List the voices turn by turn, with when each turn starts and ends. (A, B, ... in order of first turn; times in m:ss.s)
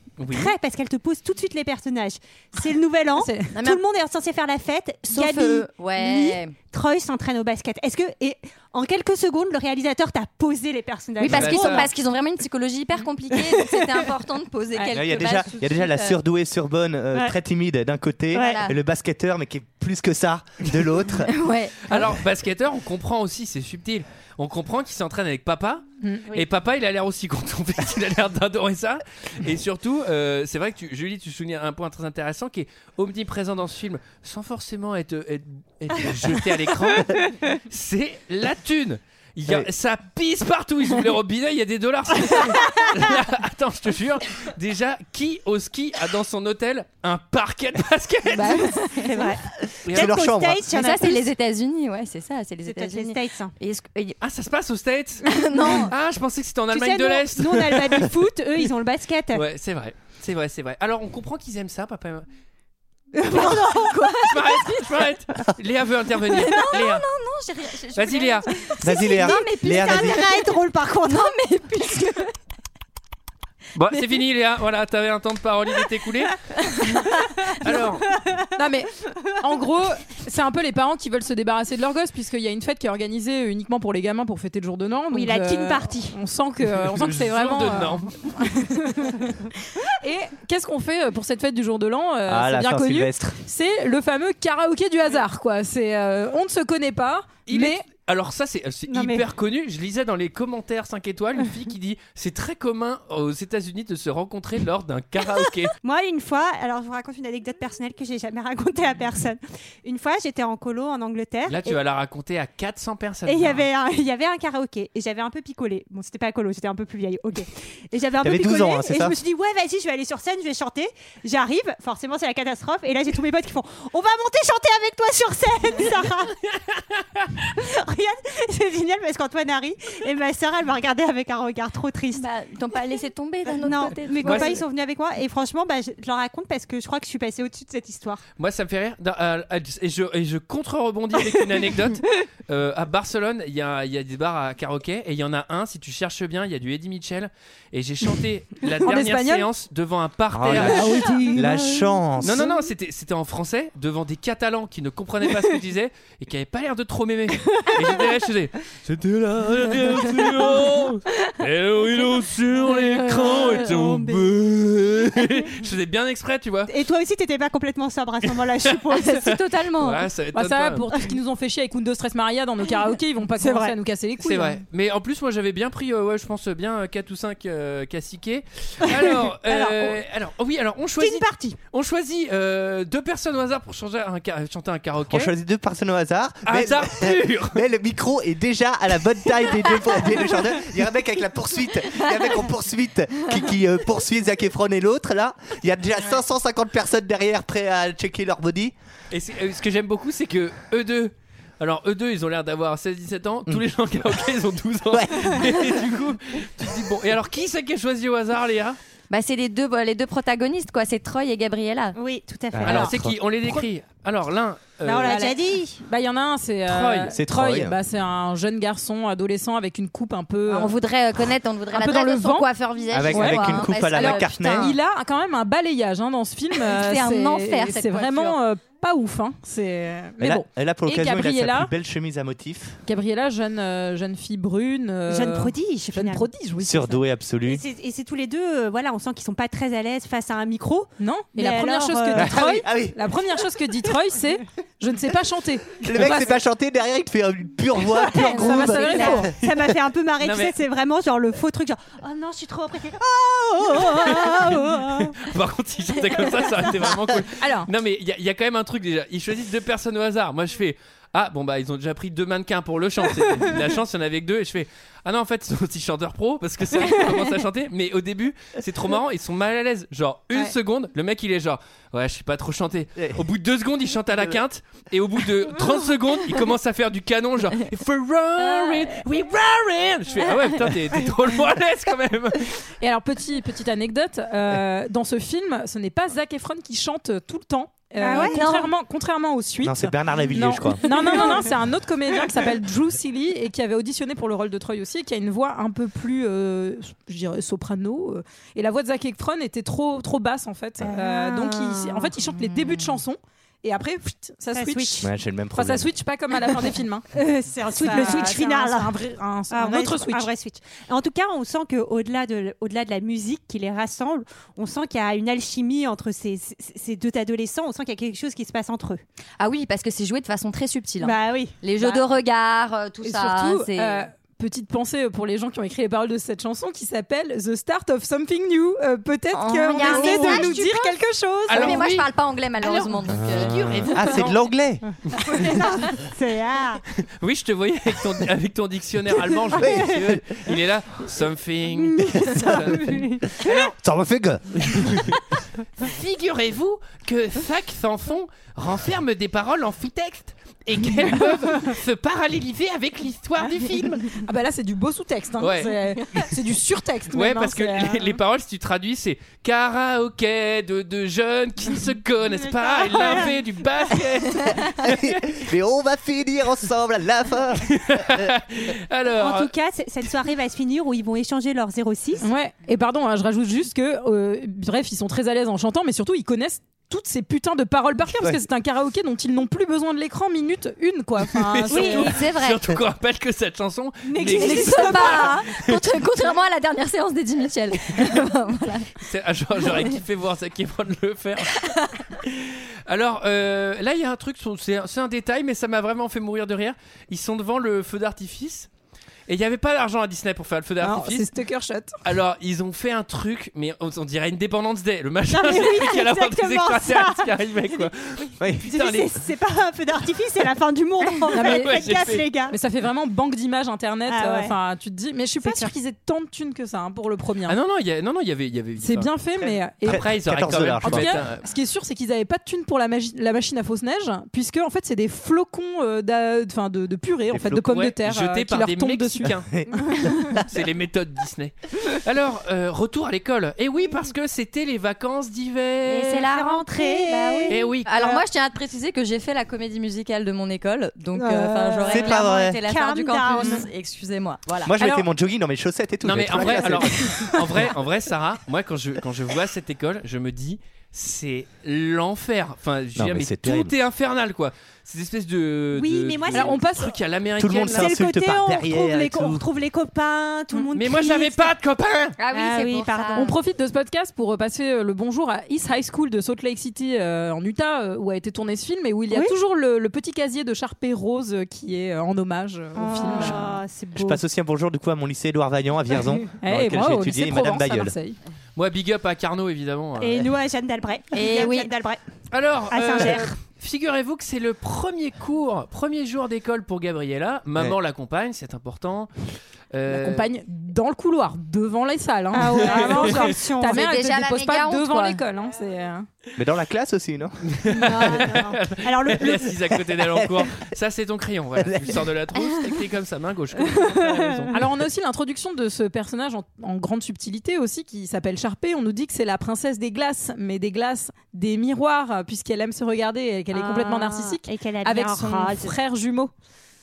0:00.2-0:00.5 A
0:00.3-0:11.9 B
0:03.2-0:03.6 C
0:03.6-0:03.8 D
0:05.1-0:06.6 D
0:11.2-0:16.2 D
0:11.3-0:11.9 A
0:13.3-0:14.1 B
0:14.9-0:21.3 E
0:18.3-0:18.7 B
0:18.3-0:18.8 D
0:21.2-0:22.0 D
0:21.9-0:48.9 A
0:26.0-0:26.3 C
0:48.3-0:49.0 C
0:49.0-0:51.3 B
0:49.8-0:50.1 A
0:49.9-0:50.8 E
0:50.6-0:54.2 D
0:52.6-0:53.5 B
0:54.2-0:58.1 A
0:55.3-0:55.9 D
0:56.7-0:59.4 B
0:59.3-1:02.3 A
1:03.2-1:05.1 D
1:03.2-1:04.0 B
1:04.2-1:07.1 A
1:06.3-1:12.3 D
1:08.0-1:08.5 A
1:08.8-1:10.3 E
1:08.8-1:11.4 B
1:13.8-1:16.4 A
1:16.5-1:17.5 D
1:17.6-1:18.0 A
1:17.7-1:18.5 B
1:18.6-1:37.9 C
1:25.1-1:26.2 B
1:26.7-1:28.4 A
1:32.3-1:33.4 E
1:37.5-1:45.7 A
1:38.9-1:39.2 B
1:45.8-1:51.8 B
1:51.5-1:53.7 A
1:53.3-2:06.4 B
1:58.2-1:59.2 E
2:06.6-2:07.3 A
2:07.6-2:12.3 B
2:12.1-2:14.6 D
2:13.5-2:18.2 B
2:14.2-2:14.6 A
2:18.4-2:31.2 A
2:28.8-2:29.5 C
2:30.3-2:32.5 E
2:30.5-2:32.4 C
2:32.2-2:46.7 A
2:43.0-2:44.3 B
2:43.1-2:43.5 D
2:46.7-2:49.4 B
2:48.3-2:48.7 A
2:48.9-2:50.1 D
2:49.2-2:50.9 A
2:50.3-2:54.6 C
2:53.4-2:53.8 B
2:54.2-3:05.3 A
2:58.9-3:00.0 B
3:01.0-3:01.6 B
3:05.1-3:18.8 E
3:06.4-3:07.6 A
3:19.1-3:28.8 A
3:24.9-3:25.5 E
3:29.1-3:32.0 D
3:32.0-3:32.9 B
3:32.5-3:33.2 E
3:32.6-3:35.2 A
3:34.8-3:35.8 B
3:35.0-3:40.8 C
3:36.7-3:37.1 A
3:37.1-3:37.8 E
3:40.5-3:44.7 D
3:41.7-3:42.5 C
3:42.9-3:44.8 E
3:43.1-3:51.7 C
3:46.5-3:48.4 D
3:50.2-3:52.8 E
3:52.9-3:57.0 C
3:55.1-3:56.3 B
3:56.6-3:57.6 E
3:57.5-4:02.6 B
4:01.0-4:06.3 C
4:02.1-4:03.0 E
4:05.8-4:09.3 E
4:08.1-4:15.2 B
4:08.2-4:09.3 C
4:08.2-4:09.1 D
4:10.2-4:10.6 A
4:13.7-4:42.6 A
4:17.4-4:17.7 C
4:33.0-4:33.2 E
4:38.5-4:38.8 D
4:40.3-4:40.6 D
4:42.8-5:07.1 C
4:48.0-4:48.6 B
4:49.6-4:50.8 E
4:50.8-4:51.4 B
5:00.8-5:02.9 B
5:04.5-5:05.0 B
5:05.0-5:05.9 E
5:07.1-5:09.0 B
5:07.7-5:10.3 C
5:09.5-5:19.0 B
5:19.4-5:24.1 D
5:21.0-5:22.0 B
5:23.0-5:31.9 C
5:29.3-5:30.7 D
5:29.8-5:31.0 B
5:31.5-5:32.1 A
5:31.5-5:34.1 D
5:32.6-5:34.4 A
5:33.1-5:34.8 E
5:35.0-5:35.5 A
5:35.3-5:36.8 B
5:35.5-5:35.9 D
5:37.0-5:43.7 A
5:39.5-5:40.4 E
5:42.1-5:43.7 B
5:43.6-5:45.1 E
5:45.8-5:54.1 A
5:54.2-5:58.2 C
5:55.4-5:56.3 A
5:57.1-6:05.2 A
6:02.3-6:03.4 B
6:04.8-6:08.4 E
6:07.7-6:09.5 A
6:09.1-6:12.3 B
6:12.2-6:22.2 C
6:21.3-6:25.8 A
6:21.7-6:22.1 B
6:21.8-6:22.7 D
6:24.1-6:25.5 B
6:24.2-6:29.0 D
6:29.0-6:38.7 A
6:29.6-6:30.0 D
6:31.5-6:32.0 D
6:39.3-6:41.3 A
6:40.8-6:42.0 C
6:42.0-6:49.1 A
6:45.3-6:47.9 B
6:48.4-6:48.7 E
6:48.6-6:52.6 B
6:51.3-6:51.9 C
6:51.4-6:52.3 A
6:52.5-6:57.6 C
6:54.1-6:54.6 B
6:55.4-6:55.7 B
6:57.5-7:01.5 A
6:58.8-7:00.1 C
6:59.9-7:01.1 E
7:00.8-7:09.4 C
7:07.3-7:07.7 E
7:07.6-7:09.5 A
7:09.3-7:10.4 E
7:10.4-7:16.2 A
7:15.9-7:24.8 D
7:16.2-7:18.2 B
7:17.5-7:17.9 A
7:21.1-7:23.7 B
7:21.9-7:22.6 E
7:24.6-7:27.7 E
7:26.0-7:38.0 A
7:33.0-7:33.7 E
7:35.7-7:36.7 B
7:36.3-7:37.0 C
7:37.4-7:39.4 E
7:37.6-7:41.5 B
7:40.7-7:42.2 A
7:42.2-7:43.4 D
7:42.3-7:43.3 B
7:43.2-7:53.6 C
7:52.8-7:54.2 B
7:54.0-7:58.0 E
7:56.3-7:58.2 C
7:58.6-8:00.3 A
8:00.0-8:02.0 B
8:01.1-8:01.7 D
8:02.3-8:09.1 A
8:02.7-8:03.3 B
8:09.7-8:10.3 A
8:09.9-8:16.1 C
8:12.3-8:13.9 B
8:12.6-8:13.3 A
8:13.7-8:15.2 D
8:16.4-8:17.4 E
8:17.4-8:24.6 A
8:17.7-8:19.6 B
8:19.9-8:20.6 E
8:21.6-8:22.1 E
8:22.4-8:22.7 D
8:23.8-8:24.5 B
8:24.5-8:36.3 C
8:33.5-8:35.8 B